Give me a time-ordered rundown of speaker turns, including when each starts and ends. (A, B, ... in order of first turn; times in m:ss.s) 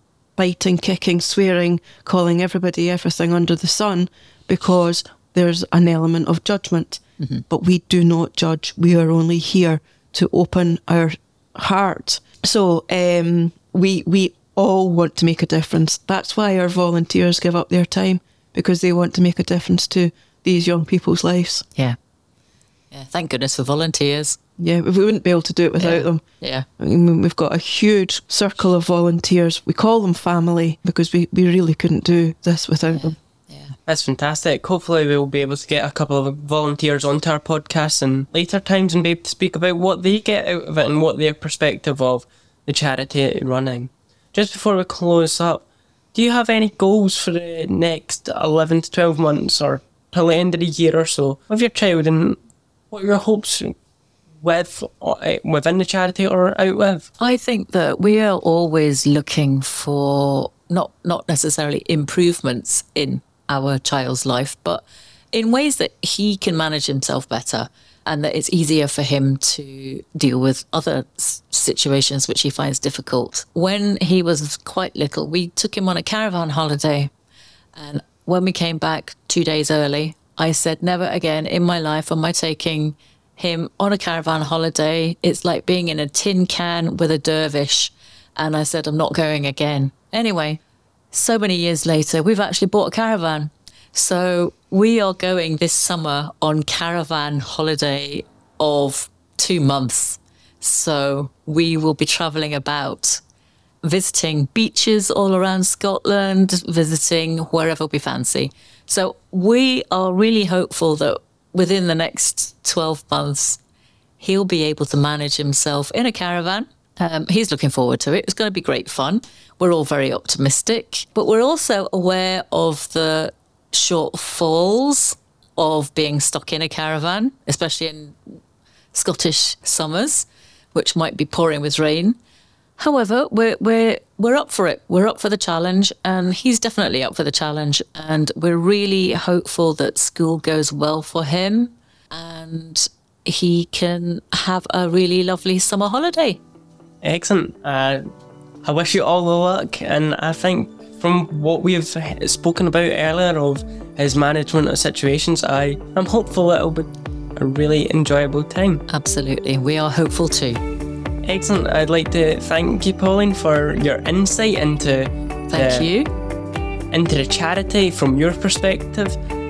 0:00.4-0:21.6 A
0:22.9-0:24.4 B
0:24.6-0:26.2 A
0:25.8-0:26.7 B
0:26.8-0:33.2 A
0:32.9-0:33.8 B
0:33.9-0:52.4 C
0:52.9-0:53.7 C
0:54.4-0:57.1 C
0:57.2-1:17.1 B
1:17.7-1:30.6 B
1:31.1-1:43.2 B
1:43.8-1:53.6 B
1:54.2-2:08.4 B
2:08.9-2:12.2 B
2:12.8-2:26.4 B
2:27.0-2:28.1 C
2:28.6-2:38.8 C
2:38.9-2:40.6 B
2:41.2-2:45.9 C
2:45.5-2:46.1 B
2:46.9-2:49.2 C